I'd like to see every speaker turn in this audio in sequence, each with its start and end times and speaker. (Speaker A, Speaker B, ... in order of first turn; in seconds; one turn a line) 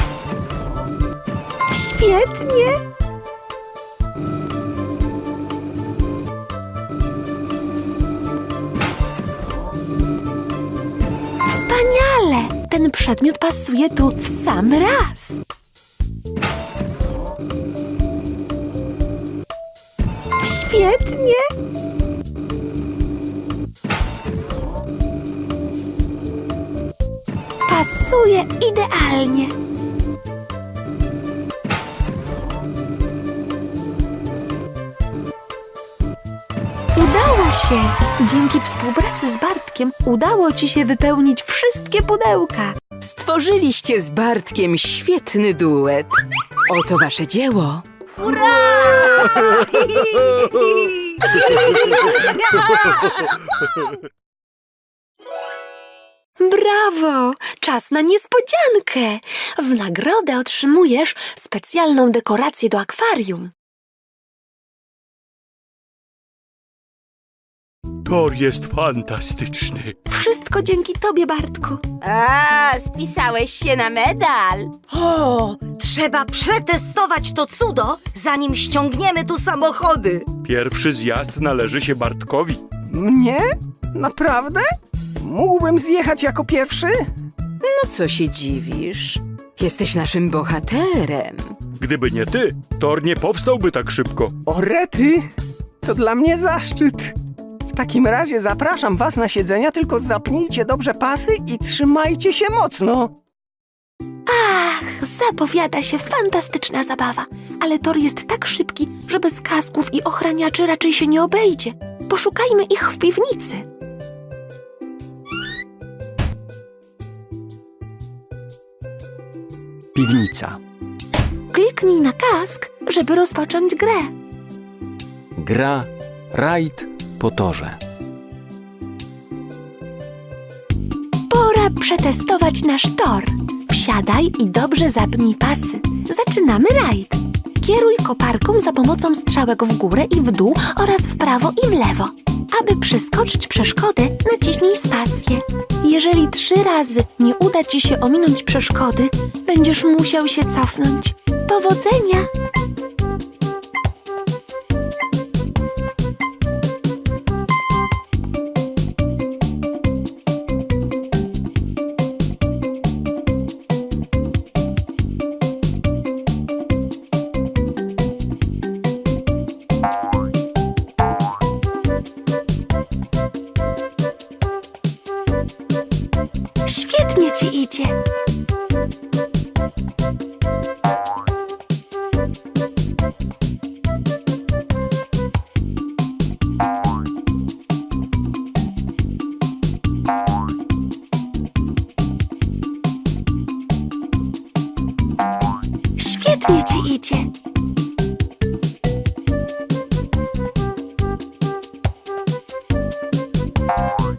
Speaker A: 1.7-2.8
Speaker A: 11.4-15.4
Speaker A: 20.4-21.5
Speaker A: 27.7-29.5
Speaker A: 36.9-42.8
Speaker B: 43.0-46.1
Speaker B: 46.7-47.9
Speaker C: 48.2-53.9
Speaker A: 56.4-63.5
Speaker D: 68.0-69.9
Speaker A: 70.1-71.8
Speaker E: 72.0-74.7
Speaker C: 74.9-80.3
Speaker D: 80.4-82.6
Speaker F: 82.9-84.7
Speaker F: 85.2-87.1
Speaker B: 87.6-91.6
Speaker D: 91.8-94.3
Speaker F: 94.5-95.3
Speaker F: 95.8-97.1
Speaker F: 97.7-103.1
Speaker A: 104.3-113.7
Speaker G: 119.9-120.6
Speaker A: 121.5-124.1
Speaker G: 125.4-127.8
Speaker A: 131.3-152.3
Speaker A: 176.7-177.9
Speaker A: 196.0-197.3